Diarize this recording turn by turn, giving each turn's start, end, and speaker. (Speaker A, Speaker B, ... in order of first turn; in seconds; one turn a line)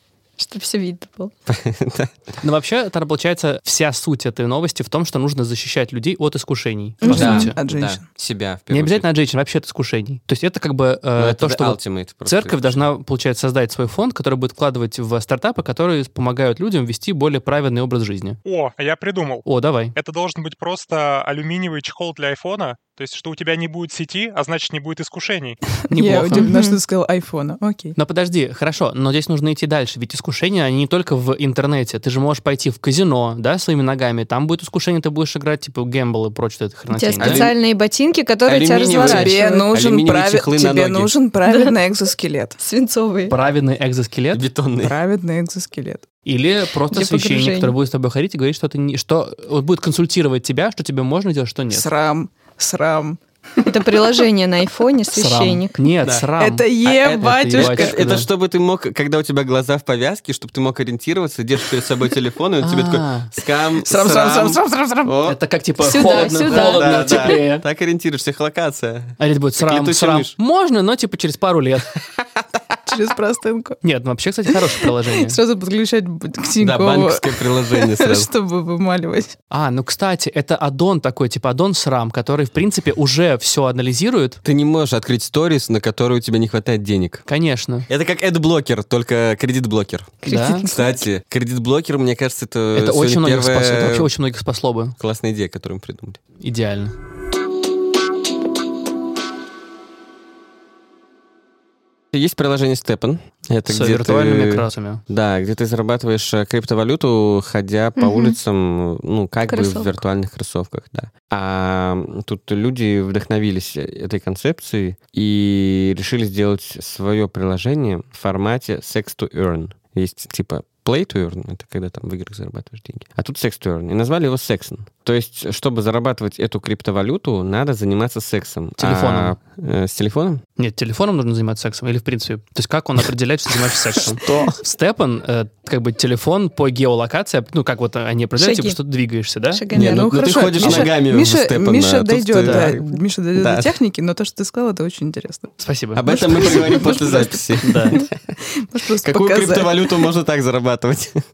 Speaker A: 0.4-1.3
Speaker B: 1.5-2.2
Speaker C: 2.4-7.5
Speaker A: 7.0-7.4
Speaker D: 7.0-8.0
Speaker B: 7.1-9.1
Speaker C: 8.7-18.4
Speaker B: 11.2-12.9
Speaker E: 18.4-25.6
Speaker C: 19.4-19.9
Speaker D: 25.9-27.9
Speaker C: 25.9-26.5
Speaker A: 26.3-26.8
Speaker C: 27.9-37.5
Speaker A: 36.9-39.7
Speaker B: 37.2-37.5
Speaker B: 38.5-41.1
Speaker D: 39.0-42.6
Speaker A: 41.5-41.7
Speaker A: 42.6-43.4
Speaker C: 43.3-44.4
Speaker B: 44.3-45.0
Speaker D: 44.8-46.0
Speaker C: 46.2-51.9
Speaker A: 46.9-47.8
Speaker D: 51.7-54.2
Speaker A: 53.6-55.9
Speaker C: 55.1-58.3
Speaker D: 56.4-58.0
Speaker B: 56.8-65.4
Speaker C: 62.6-63.3
Speaker D: 63.8-65.1
Speaker C: 65.2-67.6
Speaker A: 65.8-67.4
Speaker B: 66.0-70.3
Speaker C: 69.2-71.9
Speaker B: 72.2-72.4
Speaker D: 72.9-73.8
Speaker C: 73.8-75.4
Speaker D: 74.5-79.3
Speaker B: 76.6-78.3
Speaker C: 79.5-84.4
Speaker B: 84.4-87.2
Speaker C: 87.3-87.8
Speaker B: 87.9-94.1
Speaker C: 90.2-90.7
Speaker A: 90.2-90.9
Speaker C: 92.7-95.0
Speaker B: 95.0-96.2
Speaker C: 96.4-96.9
Speaker B: 102.1-130.4
Speaker C: 103.7-105.0
Speaker A: 108.0-108.3
Speaker A: 109.5-110.0
Speaker C: 128.8-129.3
Speaker C: 130.6-139.7
Speaker B: 133.9-134.4
Speaker A: 138.4-138.8
Speaker A: 139.5-140.8
Speaker D: 139.7-147.4
Speaker B: 139.7-143.7
Speaker C: 142.4-142.8
Speaker C: 145.6-148.0
Speaker B: 145.9-148.1
Speaker D: 148.5-150.1
Speaker B: 149.0-151.2